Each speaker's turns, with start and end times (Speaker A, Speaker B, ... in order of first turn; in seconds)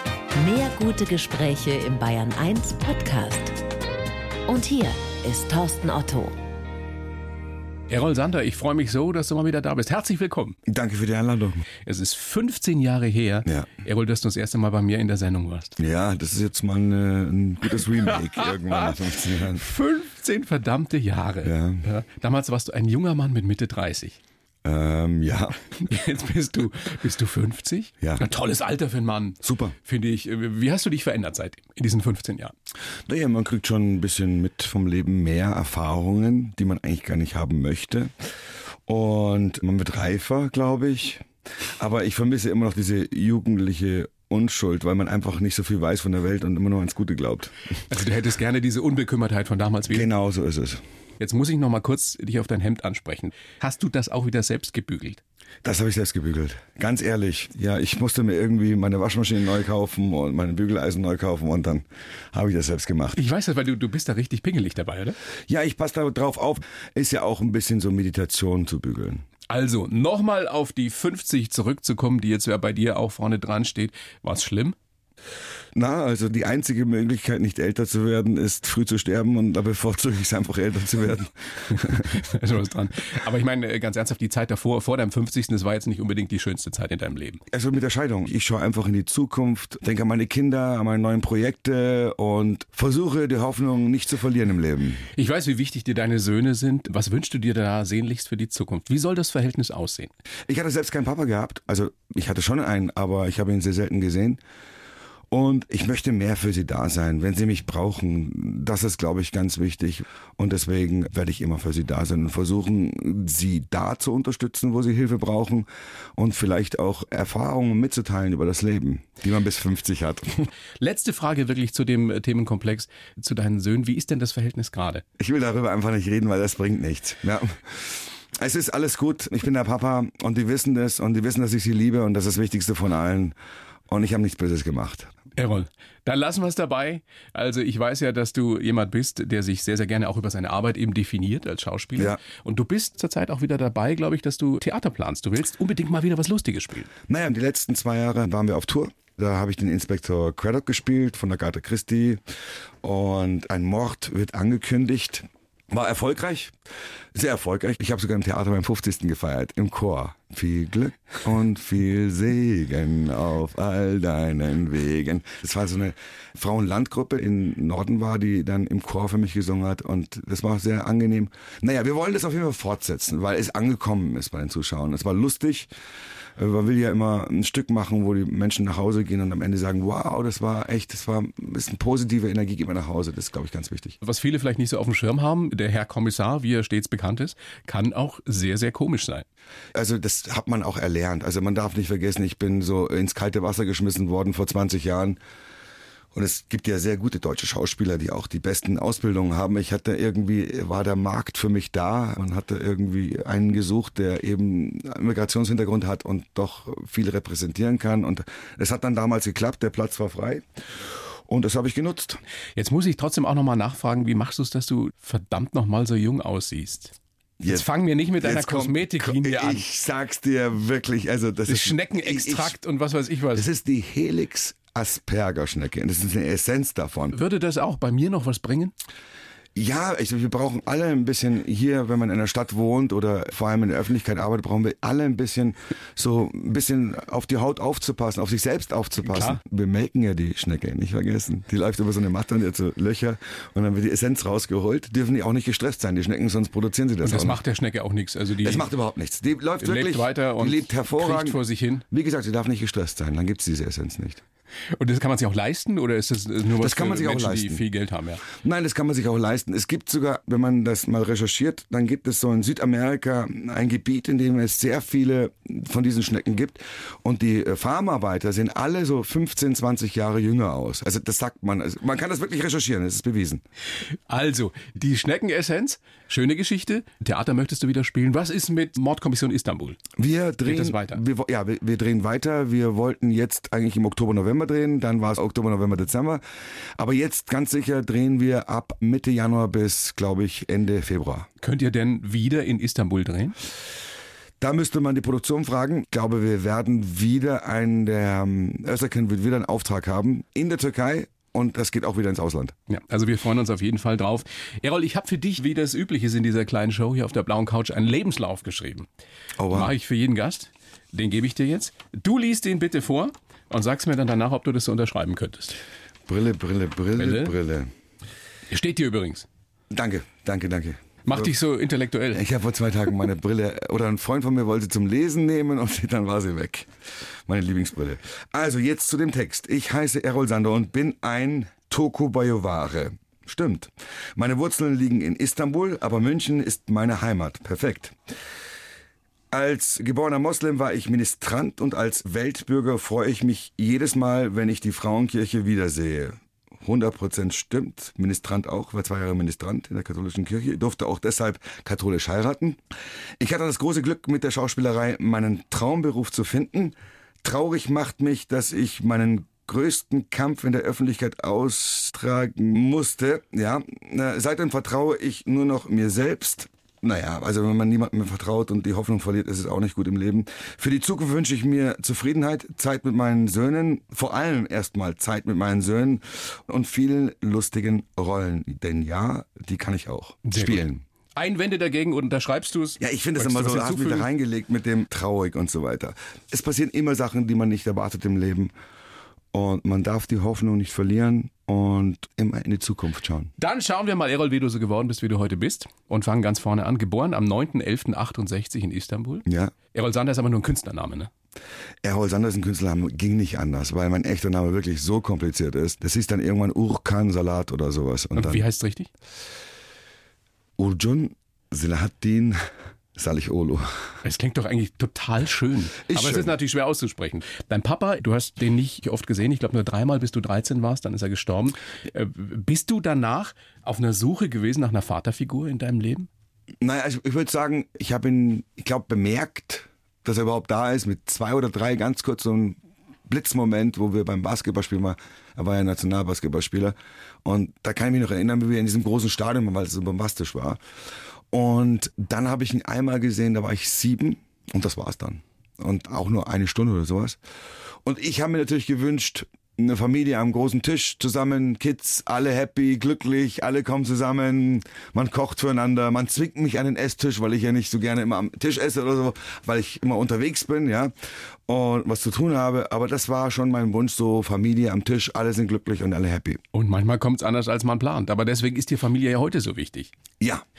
Speaker A: 0.4-3.6, 4.5-6.3
Speaker B: 7.9-10.6, 11.9-15.8, 18.4-18.9, 19.5-24.2, 25.8-32.5, 47.9-50.1, 51.2-55.2, 63.2-65.2, 69.5-74.8, 81.7-87.4, 95.1-100.1, 120.8-125.0, 135.4-146.9, 184.0-189.2, 212.6-216.9, 217.5-219.6, 221.5-223.5, 227.1-228.7, 239.1-239.4, 247.0-248.7, 249.6-251.8, 254.7-258.2, 274.1-279.9, 280.4-281.0, 291.4-293.4, 302.7-308.9, 309.5-315.6, 317.0-317.3, 318.5-319.3, 321.1-322.2, 380.2-380.6, 381.2-384.1, 393.4-401.1, 408.1-408.9, 414.0-426.1, 466.5-469.9
Speaker C: 10.7-11.6, 15.8-19.6, 21.4-21.8, 24.6-25.6, 29.4-29.8, 33.1-38.1, 38.9-41.2, 41.8-47.5, 49.9-50.8, 55.6-63.2, 65.5-69.2, 75.8-82.2, 87.5-95.0, 100.5-104.4, 105.3-120.5, 125.2-133.3, 133.9-135.1, 147.1-152.2, 152.8-156.5, 157.1-175.7, 176.4-184.0, 189.7-195.2, 196.1-210.4, 211.3-212.2, 217.4-217.7, 218.2-222.6, 223.3-227.2, 229.6-247.4, 248.4-254.2, 256.6-257.6, 258.3-273.4, 280.0-286.2, 286.8-291.3, 294.4-302.5, 309.4-309.7, 316.1-317.7, 319.7-321.3, 322.1-326.7, 327.3-338.0, 339.3-352.6, 353.2-380.8, 382.8-388.5, 389.3-393.3, 399.3-399.6, 401.8-408.5, 410.6-412.4, 413.0-413.7, 415.8-416.4, 426.6-440.6, 441.3-447.2, 447.8-460.9, 461.5-466.4